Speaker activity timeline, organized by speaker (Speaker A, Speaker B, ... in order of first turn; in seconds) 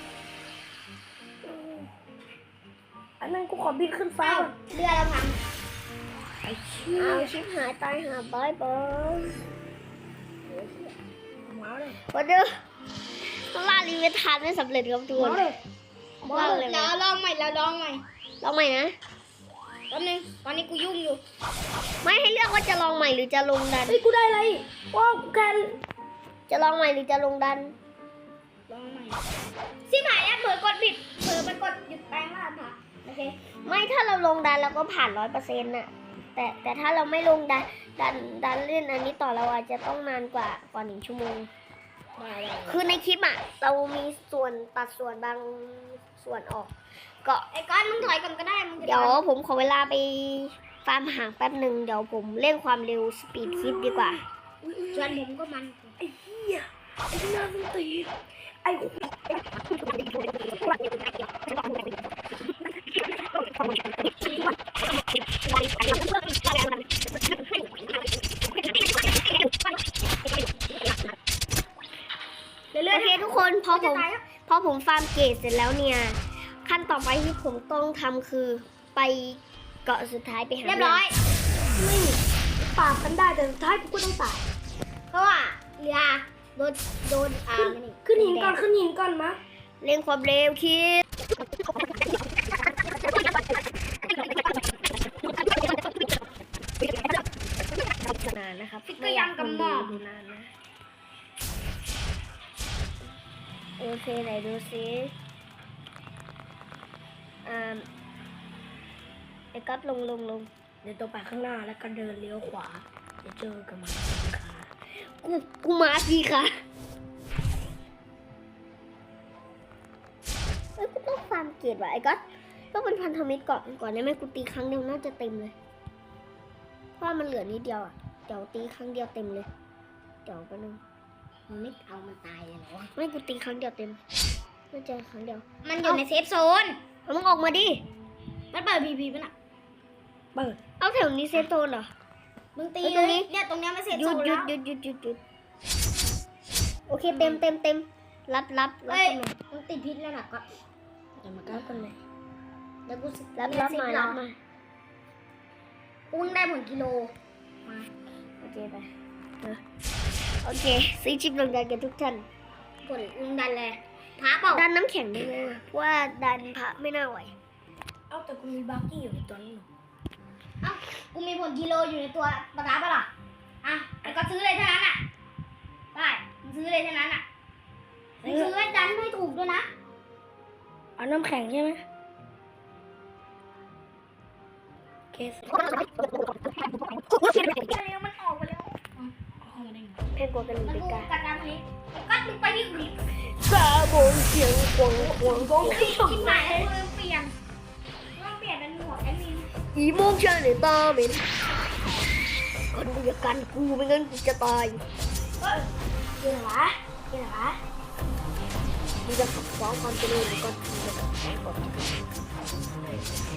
Speaker A: 1.5-1.9, 3.2-4.5, 6.4-7.3, 11.4-12.0, 15.2-15.6, 23.9-25.8, 53.4-55.1, 56.0-58.1, 58.6-59.4, 72.7-73.2, 81.8-84.4, 87.5-89.4, 110.8-114.7, 151.2-151.9, 168.1-169.7, 178.2-178.5, 181.0-181.8, 185.1-185.6, 189.4-190.0, 194.8-196.7, 206.2-207.6
Speaker B: 4.2-5.4, 10.4-10.9, 16.2-18.0, 19.9-21.2, 28.7-29.2, 29.9-33.4, 42.2-42.8, 47.5-49.2, 54.9-56.0, 72.9-73.1, 73.7-74.2, 80.6-81.2, 85.1-88.6, 98.9-100.0, 131.5-132.9, 135.6-136.8, 138.5-139.3, 142.6-144.5, 147.1-147.4, 148.9-150.5, 151.4-151.7, 152.9-154.2, 156.1-157.1, 162.8-164.7, 170.6-173.1, 173.6-175.0, 175.9-177.2, 178.2-179.7, 187.4-189.1, 190.6-193.0, 195.7-197.3, 198.1-199.5, 206.3-206.6
Speaker C: 7.0-9.4, 12.1-12.5, 13.2-15.5, 16.2-16.9, 18.4-18.9, 22.0-24.0, 26.5-27.7, 33.6-41.5, 42.6-46.7, 48.8-54.2, 72.9-81.0, 89.8-91.0, 97.9-100.5, 103.8-105.1, 107.4-107.8, 109.5-110.5, 115.2-116.5, 120.8-122.2, 122.7-125.5, 127.0-129.5, 130.2-130.8, 132.9-134.0, 134.7-136.0, 137.1-137.8, 140.8-141.9, 142.8-143.3, 143.9-145.2, 146.9-149.3, 153.3-154.3, 158.4-158.9, 160.4-162.2, 164.5-167.3, 190.1-191.1, 193.4-195.9, 199.7-201.2, 202.7-204.8, 209.0-212.1